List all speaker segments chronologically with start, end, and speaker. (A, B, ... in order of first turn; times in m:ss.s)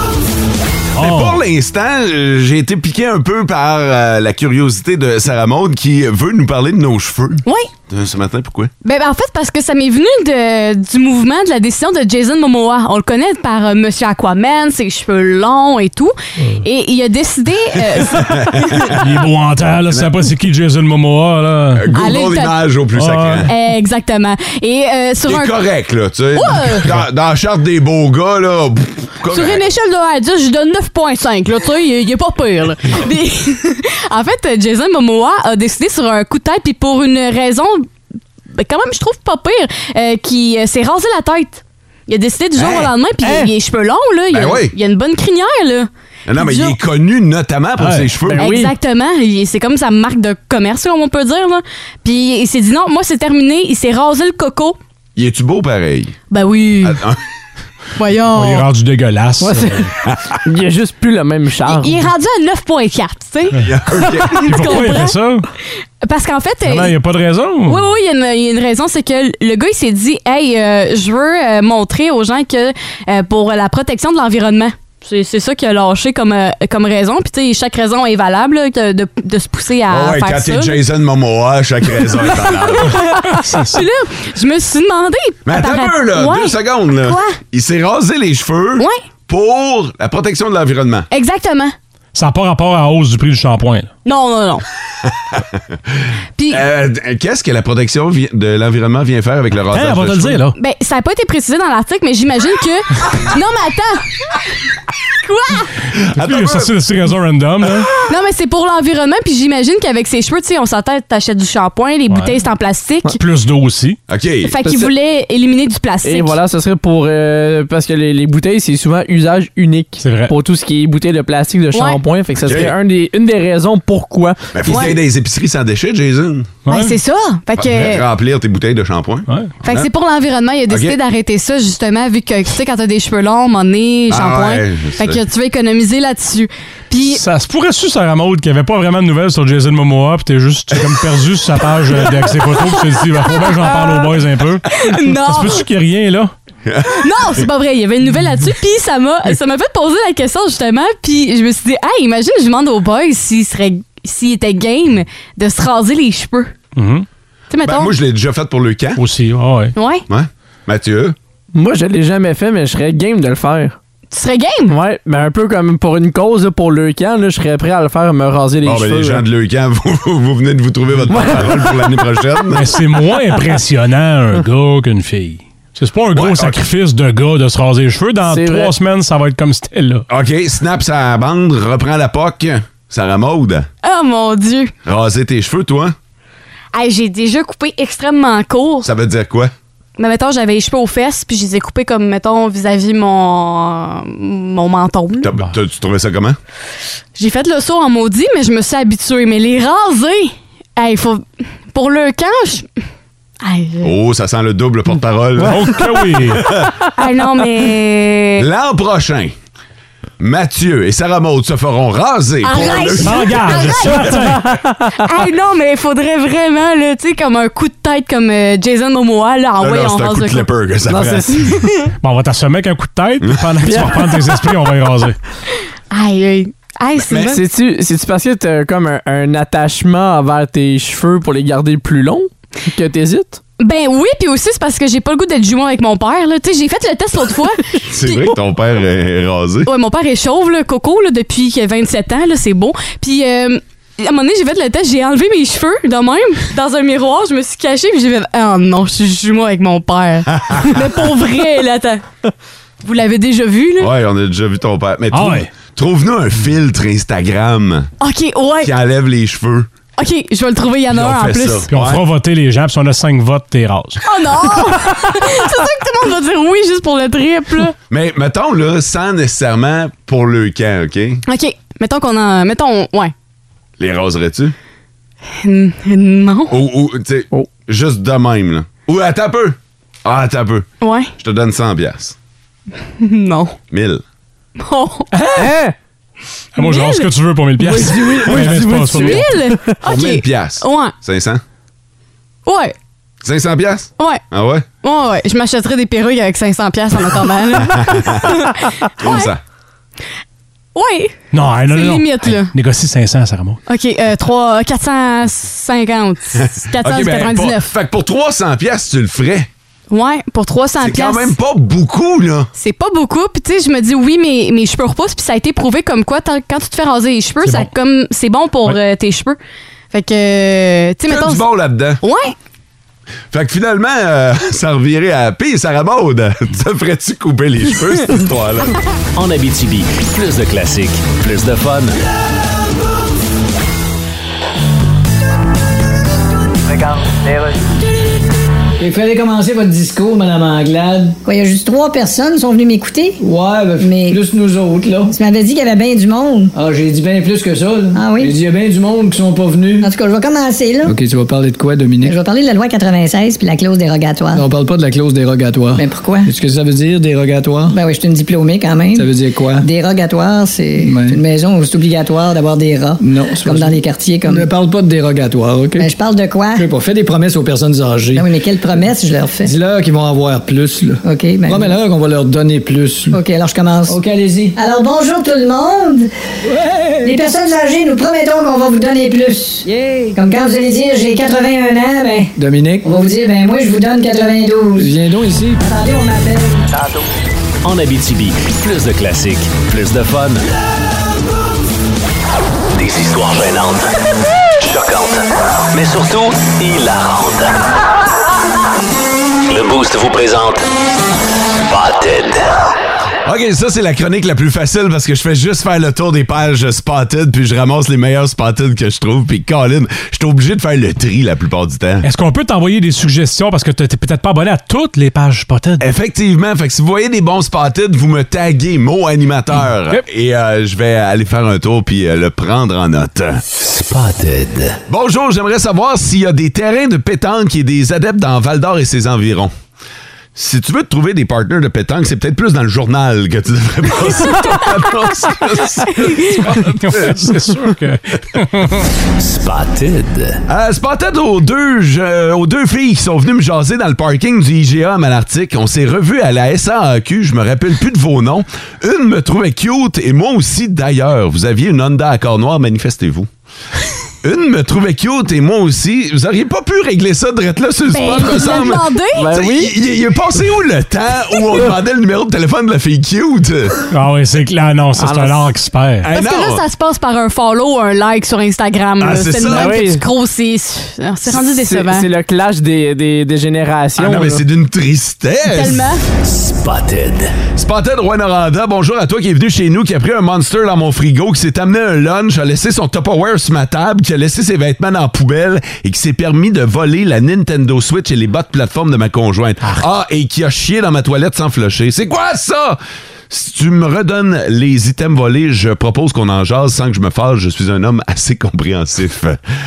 0:01.0-0:01.4 A
0:01.0-0:08.7 B
0:07.4-0:07.7 C
0:08.8-0:18.9 C
0:18.0-0:18.9 B
0:18.8-0:21.9 A
0:21.8-0:23.5 B
0:21.9-0:22.6 C
0:23.0-0:23.5 A
0:23.5-0:25.6 C
0:25.2-0:29.6 B
0:26.4-0:26.9 C
0:29.3-0:37.9 C
0:38.5-0:46.8 C
0:42.6-0:42.9 B
0:43.2-0:43.5 D
0:44.3-0:44.8 B
0:46.3-0:48.5 B
0:47.8-0:48.1 A
0:48.2-0:48.7 D
0:48.3-0:54.8 C
0:55.2-0:56.2 B
0:56.3-0:57.0 C
0:56.8-0:57.2 B
0:58.0-0:58.7 C
0:58.3-0:59.9 A
0:59.4-0:59.9 D
1:00.4-1:02.0 D
1:01.7-1:05.2 C
1:03.6-1:04.5 B
1:04.3-1:05.5 A
1:06.0-1:06.9 C
1:06.6-1:07.8 A
1:07.7-1:20.8 C
1:19.9-1:23.0 B
1:22.2-1:27.4 C
1:23.4-1:23.8 A
1:25.5-1:31.1 B
1:31.1-1:31.8 C
1:32.2-1:33.9 A
1:34.0-1:34.6 C
1:35.1-1:36.0 B
1:36.4-1:36.6 C
1:36.5-1:40.4 B
1:39.7-1:40.6 A
1:40.6-1:44.4 C
1:45.2-1:45.7 C
1:46.0-1:46.7 B
1:46.2-1:47.9 A
1:48.1-1:53.2 C
1:52.1-1:52.4 A
1:53.2-1:54.0 A
1:54.1-1:54.6 B
1:54.4-1:56.4 C
1:54.6-1:54.9 D
1:56.0-2:04.9 D
2:00.0-2:00.3 A
2:01.7-2:02.0 C
2:02.4-2:02.7 B
2:04.5-2:06.6 B
2:04.7-2:05.0 C
2:06.6-2:07.0 A
2:06.7-2:08.0 C
2:07.6-2:09.9 B
2:09.6-2:17.2 C
2:10.7-2:11.0 B
2:14.1-2:15.2 B
2:17.1-2:26.3 A
2:23.2-2:24.0 C
2:24.8-2:25.6 C
2:26.6-2:27.4 B
2:27.0-2:36.5 C
2:36.8-2:37.1 A
2:37.5-2:38.0 C
2:37.6-2:39.0 B
2:39.0-2:39.7 A
2:39.8-2:40.0 C
2:40.1-2:41.2 B
2:41.6-2:43.8 D
2:44.1-2:44.7 C
2:44.7-2:49.2 D
2:48.6-2:52.8 B
2:51.1-2:52.0 D
2:52.5-3:00.1 A
2:56.1-2:56.6 B
2:58.3-2:58.7 D
3:00.1-3:03.7 B
3:03.8-3:04.7 C
3:04.8-3:06.0 B
3:06.7-3:08.9 C
3:08.8-3:09.5 B
3:10.0-3:15.3 C
3:15.2-3:16.4 B
3:17.2-3:22.7 C
3:23.4-3:23.9 C
3:23.8-3:26.7 B
3:25.5-3:26.5 A
3:27.0-3:28.5 C
3:28.4-3:29.4 B
3:30.2-3:34.0 B
3:32.4-3:34.2 C
3:33.0-3:34.6 A
3:34.3-3:34.9 D
3:35.0-3:40.5 C
3:39.6-3:41.3 B
3:40.9-3:41.8 D
3:42.0-3:45.2 A
3:43.2-3:43.7 B
3:43.7-3:44.4 D
3:45.9-3:47.4 C
3:47.0-3:47.4 B
3:47.2-3:53.4 D
3:53.6-3:58.2 C
3:57.9-3:59.7 B
3:59.6-4:12.0 C
4:10.3-4:10.7 B
4:12.8-4:13.9 C
4:13.8-4:17.9 B
4:15.1-4:15.5 A
4:18.0-4:18.7 C
4:18.6-4:19.7 B
4:20.0-4:21.7 C
4:20.9-4:22.0 B
4:21.7-4:24.0 A
4:24.0-4:27.8 C
4:27.9-4:31.2 B
4:31.3-4:33.1 C
4:33.8-4:34.6 B
4:35.4-4:36.5 C
4:36.5-4:42.2 B
4:40.8-4:41.1 C
4:43.0-4:43.6 C
4:43.7-4:44.0 B
4:44.6-4:45.1 C
4:45.1-4:45.5 A
4:45.4-4:45.8 D
4:46.6-4:49.3 A
4:46.6-4:47.1 C
4:47.6-4:49.8 D
4:48.9-4:50.9 C
4:49.8-4:51.4 B
4:52.5-4:52.7 C
4:53.2-4:54.7 B
4:54.0-4:54.2 C
4:54.8-4:59.3 C
4:57.6-4:58.4 B
4:59.0-4:59.4 B
5:00.8-5:01.2 C
5:01.3-5:03.6 A
5:01.7-5:02.5 C
5:03.7-5:07.7 C
5:06.4-5:09.5 B
5:09.9-5:11.4 C
5:10.8-5:12.5 B
5:12.6-5:19.4 C
5:17.4-5:17.7 A
5:19.9-5:21.5 C
5:21.1-5:22.0 B
5:22.0-5:22.4 C
5:23.3-5:28.8 B
5:29.2-5:32.0 E
5:38.8-5:41.2 F
5:41.2-5:43.2 G
5:43.2-5:45.2 F
5:43.8-5:44.2 G
5:45.1-5:46.5 G
5:46.5-5:49.9 F
5:48.0-5:48.3 G
5:49.8-5:51.0 G
5:50.8-5:52.2 F
5:52.0-5:54.4 G
5:54.4-5:57.8 F
5:55.8-5:56.3 G
5:57.7-6:04.5 G
5:59.0-5:59.7 F
6:00.8-6:01.2 F
6:03.0-6:05.9 F
6:05.8-6:06.7 G
6:06.6-6:08.3 F
6:08.2-6:09.5 G
6:09.4-6:13.2 F
6:11.0-6:11.8 G
6:13.1-6:14.0 G
6:13.9-6:14.6 F
6:14.6-6:16.1 G
6:16.5-6:17.2 F
6:17.0-6:22.3 G
6:19.7-6:20.1 F
6:22.4-6:23.0 F
6:22.8-6:25.0 G
6:24.8-6:25.6 F
6:25.6-6:26.6 G
6:27.6-6:30.5 E
6:32.8-6:33.9 E
6:34.6-6:37.6 E
6:39.5-6:40.6 E
6:41.7-6:42.6 E
6:43.2-6:52.1 B
6:52.0-6:55.8 A
6:55.8-7:03.4 B
7:03.6-7:04.8 E
7:04.9-7:09.5 B
7:10.4-7:17.6 B
7:14.2-7:14.7 C
7:15.9-7:16.4 C
7:16.5-7:18.9 A
7:19.2-7:20.4 E
7:20.5-7:33.3 B
7:34.2-7:43.8 B
7:37.9-7:39.2 C
7:39.2-7:39.7 D
7:43.9-7:46.1 A
7:45.0-7:45.5 D
7:46.0-7:46.6 B
7:46.1-7:52.1 C
7:49.0-7:49.8 B
7:49.5-7:50.0 D
7:51.3-7:54.4 D
7:54.0-7:55.9 B
7:55.5-7:56.0 C
7:56.2-7:57.3 E
7:57.6-8:19.4 B